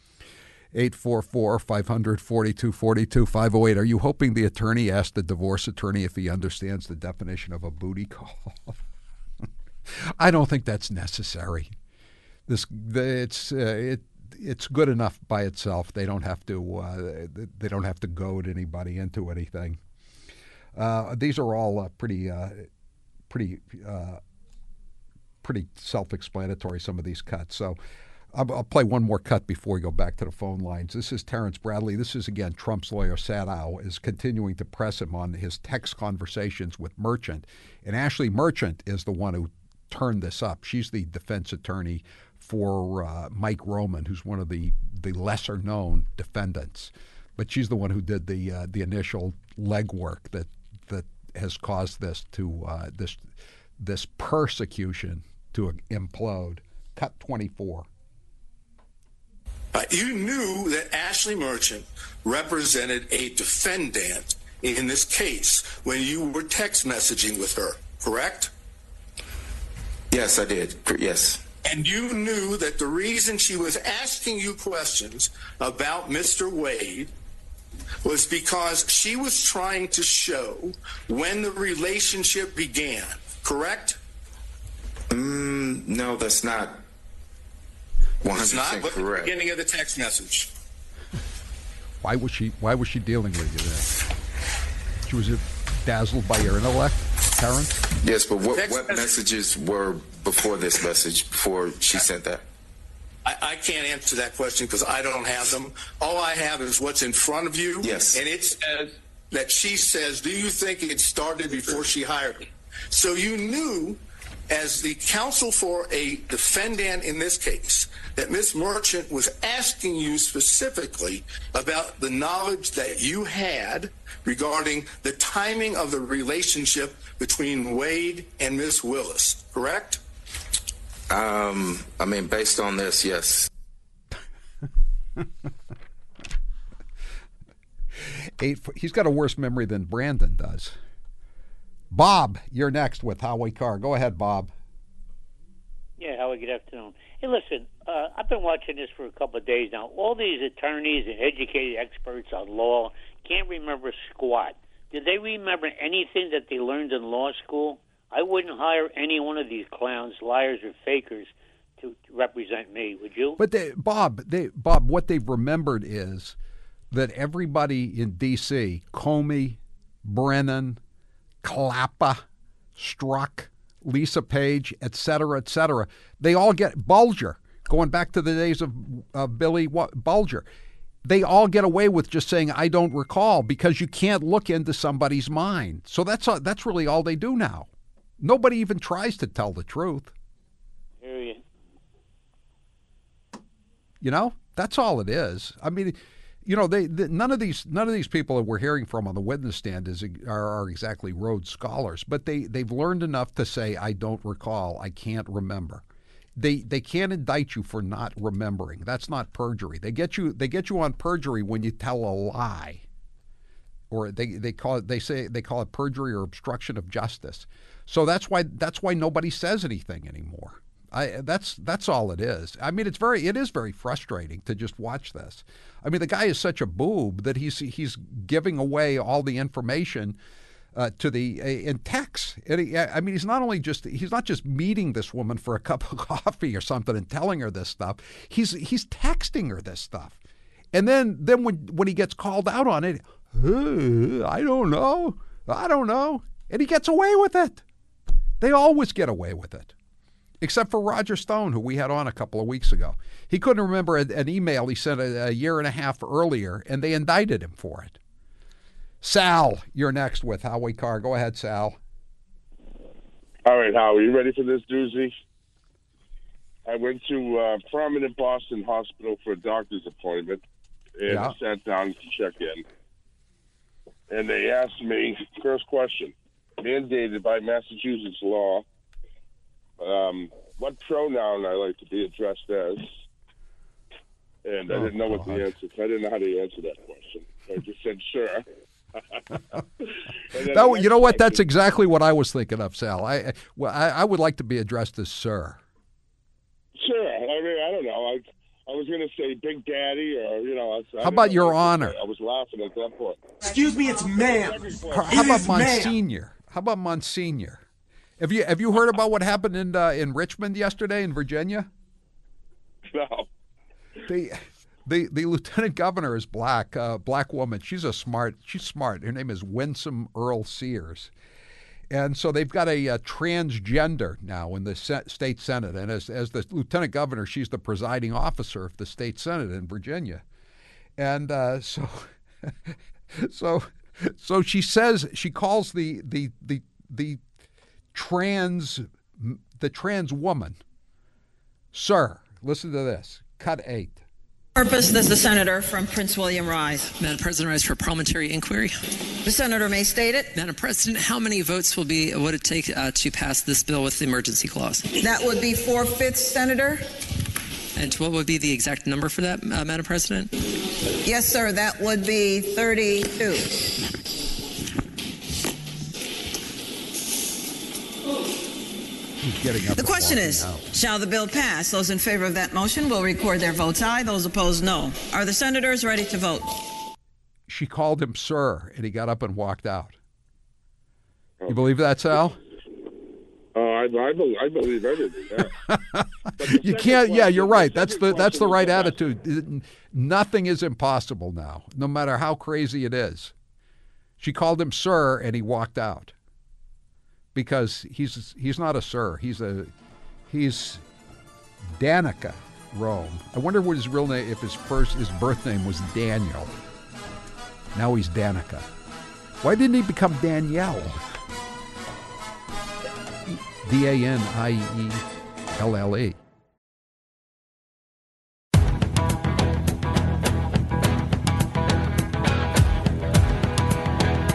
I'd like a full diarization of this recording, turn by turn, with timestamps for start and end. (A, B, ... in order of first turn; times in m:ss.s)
0:00.7-0:08.8 A
0:09.9-0:11.7 A
0:12.5-0:19.8 A
0:20.8-0:22.7 A
0:23.3-0:24.2 A
0:25.4-0:27.8 A
0:28.3-0:53.2 A
0:53.8-0:57.9 A
0:59.7-1:08.5 B
1:10.1-1:11.4 C
1:11.6-1:17.1 B
1:18.0-1:24.0 B
1:25.1-1:26.8 C
1:28.2-1:29.3 C
1:28.3-1:30.5 B
1:32.0-1:34.0 A
1:35.1-1:37.8 A
1:38.0-1:42.4 C
1:38.5-1:39.1 B
1:43.2-2:10.0 B
1:47.8-1:48.2 C
2:11.1-2:13.5 C
2:18.0-2:20.8 A
2:21.9-2:24.5 A
2:26.0-2:43.4 D
2:43.4-2:46.4 A
2:46.9-2:50.8 A
2:51.4-2:52.2 A
2:52.8-3:00.5 A
3:01.0-3:07.7 A
3:08.2-3:10.1 A
3:11.0-3:11.4 D
3:14.0-3:25.8 A
3:26.4-3:32.8 A
3:33.9-3:50.2 A
3:50.7-4:00.2 A
4:00.7-4:07.6 A
4:08.4-4:09.7 A
4:10.4-4:18.0 A
4:19.0-4:21.8 A
4:23.5-4:25.1 E
4:26.7-4:30.4 E
4:31.0-4:32.6 E
4:31.1-4:31.4 A
4:34.1-4:38.6 E
4:39.8-4:42.9 E
4:44.4-4:48.4 E
4:44.7-4:45.5 A
4:50.3-4:51.4 E
4:50.5-4:55.6 A
4:56.8-5:03.2 E
5:01.0-5:02.0 A
5:03.4-5:06.0 F
5:04.4-5:05.4 E
5:04.9-5:07.6 A
5:08.2-5:11.7 A
5:12.9-5:13.3 E
5:14.1-5:21.1 A
5:21.9-5:30.2 A
5:31.0-5:37.2 A
5:37.9-5:40.6 A
5:41.7-5:44.0 A
5:44.6-5:46.8 G
5:46.9-5:48.8 H
5:49.2-5:50.3 G
5:50.3-5:54.9 H
5:55.0-5:56.8 G
5:57.8-6:00.3 H
6:01.0-6:03.5 G
6:09.2-6:10.7 A
6:09.8-6:16.6 G
6:17.5-6:20.0 A
6:21.5-6:22.4 A
6:23.6-6:25.5 E
6:25.6-6:33.3 A
6:26.4-6:29.0 E
6:34.2-6:36.1 A
6:37.4-6:39.7 A
6:40.3-6:40.8 A
6:41.8-6:46.6 A
6:47.8-6:48.7 A
6:49.4-6:51.0 A
6:53.3-6:55.0 A
6:55.6-6:56.2 A